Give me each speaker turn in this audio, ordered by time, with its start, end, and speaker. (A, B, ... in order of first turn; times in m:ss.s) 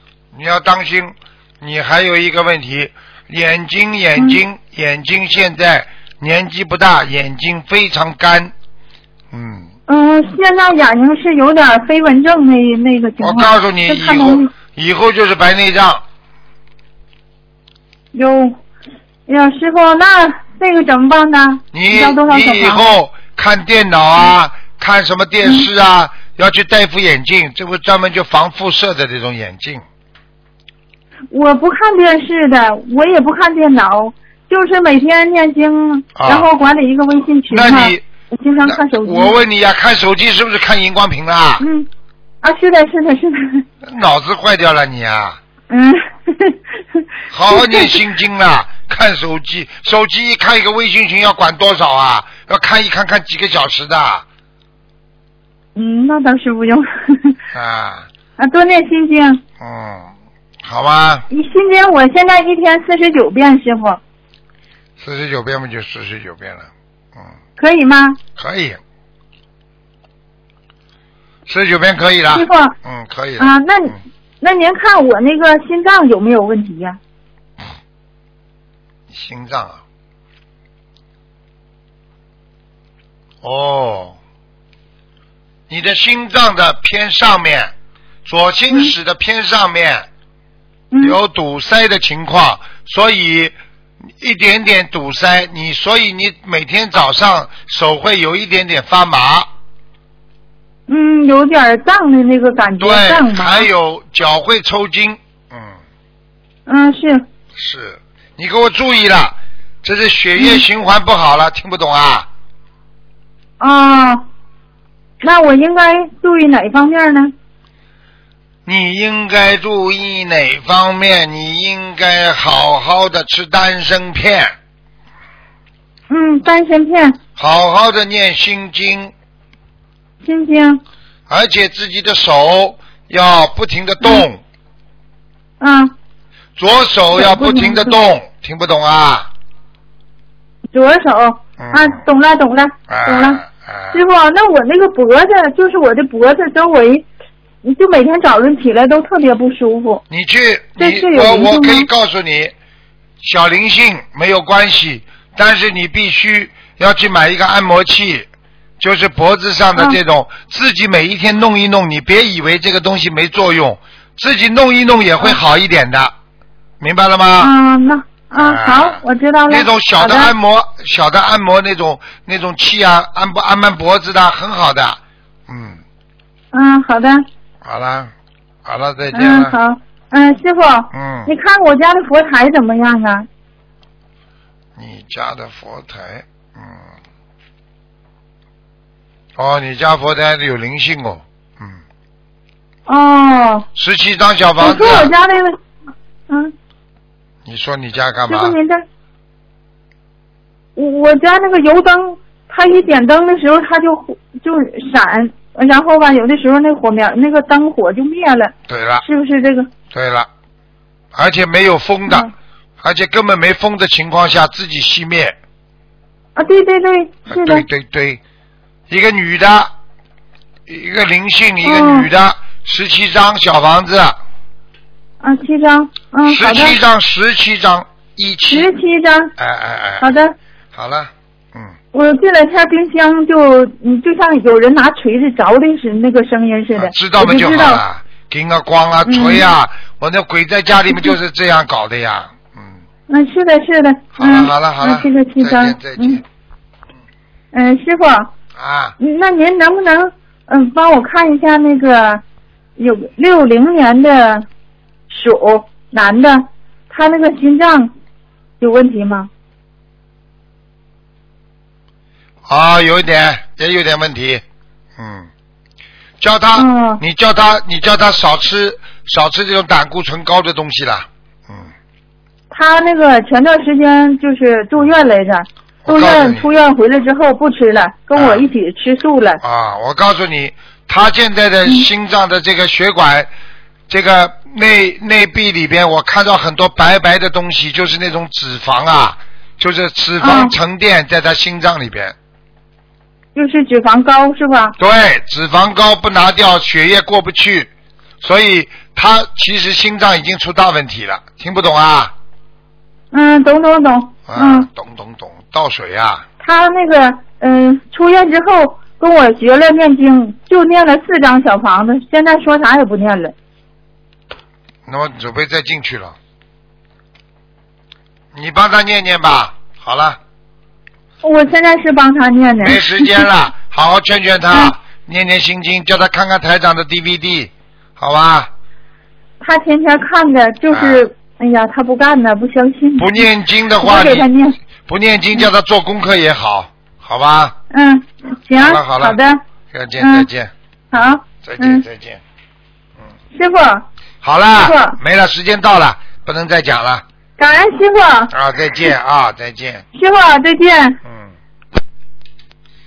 0:00.3-0:08.5 A
0:09.3-0:09.7 A
0:09.9-0:14.5 B
0:13.2-0:16.0 A
0:18.1-0:18.6 B
0:19.3-0:22.8 B
0:21.7-0:29.8 A
0:31.3-0:39.4 B
0:36.2-0:36.5 A
0:37.5-0:38.0 A
0:38.6-0:41.6 A
0:41.6-0:41.9 B
0:42.4-0:43.7 B
0:43.8-0:45.4 A
0:45.7-0:48.0 B
0:47.3-0:54.2 A
0:55.8-0:57.4 B
0:57.5-0:58.1 A
0:58.4-0:59.4 B
0:59.6-1:01.3 A
1:01.3-1:04.0 B
1:05.0-1:07.3 A
1:07.6-1:08.2 B
1:08.4-1:08.8 A
1:11.5-1:13.6 A
1:12.3-1:12.8 B
1:13.4-1:17.0 B
1:19.1-1:19.8 A
1:23.4-1:24.2 A
1:25.7-1:27.7 A
1:28.2-1:30.1 A
1:30.9-1:31.2 B
1:31.0-1:33.6 A
1:34.2-1:39.5 A
1:40.9-1:43.7 B
1:42.8-1:45.8 A
1:46.7-1:47.2 B
1:47.6-1:52.3 A
1:50.4-1:50.6 B
1:53.6-1:54.2 B
1:55.2-1:57.3 B
1:58.6-2:04.5 A
2:06.1-2:07.2 B
2:07.4-2:09.1 A
2:10.2-2:10.8 B
2:11.3-2:14.4 A
2:15.6-2:15.9 B
2:16.6-2:19.3 A
2:17.2-2:18.0 B
2:20.7-2:27.1 B
2:21.6-2:22.0 A
2:22.9-2:24.0 A
2:27.6-2:30.0 B
2:30.1-2:32.5 A
2:30.8-2:31.9 B
2:33.2-2:38.3 A
2:38.8-2:46.2 A
2:46.8-2:47.6 A
2:47.4-2:50.3 B
2:48.4-2:55.8 A
2:56.5-2:57.3 B
2:57.6-2:58.1 A
2:58.6-2:59.6 A
2:59.1-3:03.3 B
3:00.9-3:01.3 A
3:04.8-3:06.9 A
3:09.4-3:11.8 A
3:12.9-3:13.7 B
3:13.8-3:15.1 A
3:14.6-3:15.6 B
3:17.4-3:18.6 A
3:18.3-3:18.8 B
3:20.8-3:29.7 B
3:28.7-3:29.0 A
3:29.9-3:30.3 A
3:31.1-3:32.3 A
3:32.8-3:35.4 A
3:36.4-3:37.7 B
3:37.3-3:38.2 A
3:38.9-3:39.7 A
3:40.7-3:44.2 A
3:41.6-3:42.1 B
3:45.2-3:46.8 B
3:46.2-3:48.7 A
3:48.5-3:49.3 B
3:49.4-3:50.1 A
3:50.0-3:50.3 B
3:50.7-3:51.8 A
3:51.9-3:57.8 B
3:56.8-4:02.8 A
3:59.1-3:59.5 B
4:03.1-4:06.2 B
4:04.2-4:06.2 A
4:07.5-4:08.3 B
4:08.6-4:09.0 A
4:09.0-4:12.2 B
4:12.8-4:14.5 B
4:15.1-4:17.9 B
4:18.6-4:19.3 B
4:22.5-4:24.4 A
4:25.0-4:25.3 A
4:26.2-4:31.7 A
4:26.6-4:27.0 B
4:32.5-4:39.4 B
4:35.9-4:36.5 A
4:38.2-4:38.5 A
4:39.4-4:43.3 A
4:43.9-4:52.2 A
4:50.2-4:50.6 B
4:53.4-4:54.8 B
4:54.8-4:57.7 A
4:58.2-5:02.1 A
5:03.1-5:04.7 B
5:04.3-5:06.3 A
5:06.4-5:13.3 B
5:14.9-5:16.2 A
5:18.3-5:20.2 A
5:21.2-5:23.2 B
5:22.6-5:28.5 A
5:29.4-5:33.3 B
5:30.7-5:31.0 A
5:33.0-5:34.3 A
5:33.8-5:34.6 B
5:34.8-5:37.6 A
5:37.7-5:39.4 B
5:38.6-5:39.2 A
5:39.7-5:42.2 A
5:40.0-5:40.3 B
5:40.9-5:41.8 B
5:43.3-5:43.9 B
5:44.2-5:47.0 A
5:44.6-5:45.0 B
5:47.4-5:48.3 B
5:48.3-5:49.8 A
5:50.0-5:51.0 B
5:51.1-5:51.3 A